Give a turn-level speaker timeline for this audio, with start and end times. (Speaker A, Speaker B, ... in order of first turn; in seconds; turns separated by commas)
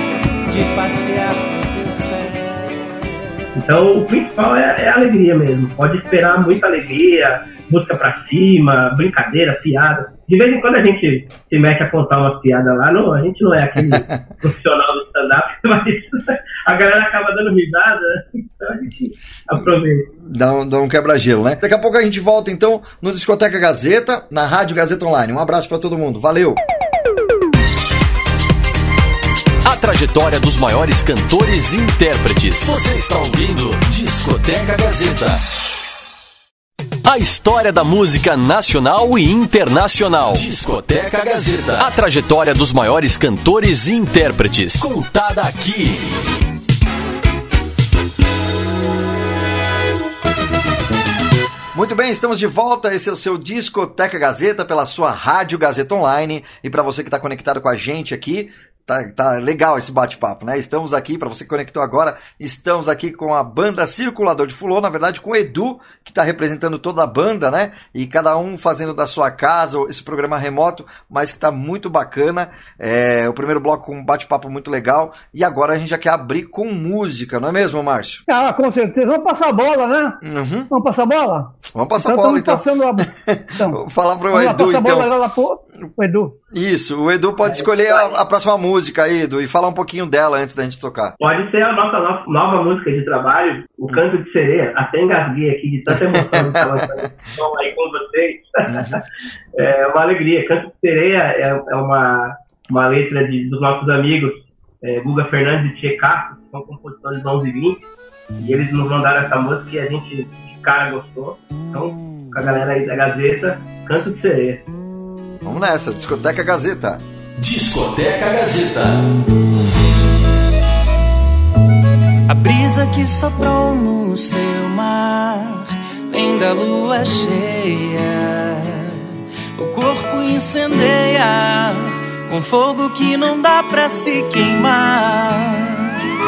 Speaker A: 0.5-3.3, Speaker B: 3.5-20.1, Speaker C: 13.7-14.2, Speaker C: 20.2-26.6, Speaker D: 29.6-35.4, Speaker D: 37.0-46.2, Speaker C: 51.7-78.2, Speaker E: 78.3-83.8, Speaker C: 80.2-80.7, Speaker C: 81.7-85.1, Speaker E: 84.3-86.3, Speaker C: 86.5-91.1, Speaker B: 87.4-88.2, Speaker B: 91.2-99.0, Speaker C: 95.9-97.1, Speaker C: 98.7-99.0, Speaker B: 99.5-107.8, Speaker B: 108.4-114.6, Speaker C: 115.4-117.0, Speaker D: 117.4-119.0, Speaker A: 122.3-129.0, Speaker A: 129.6-135.9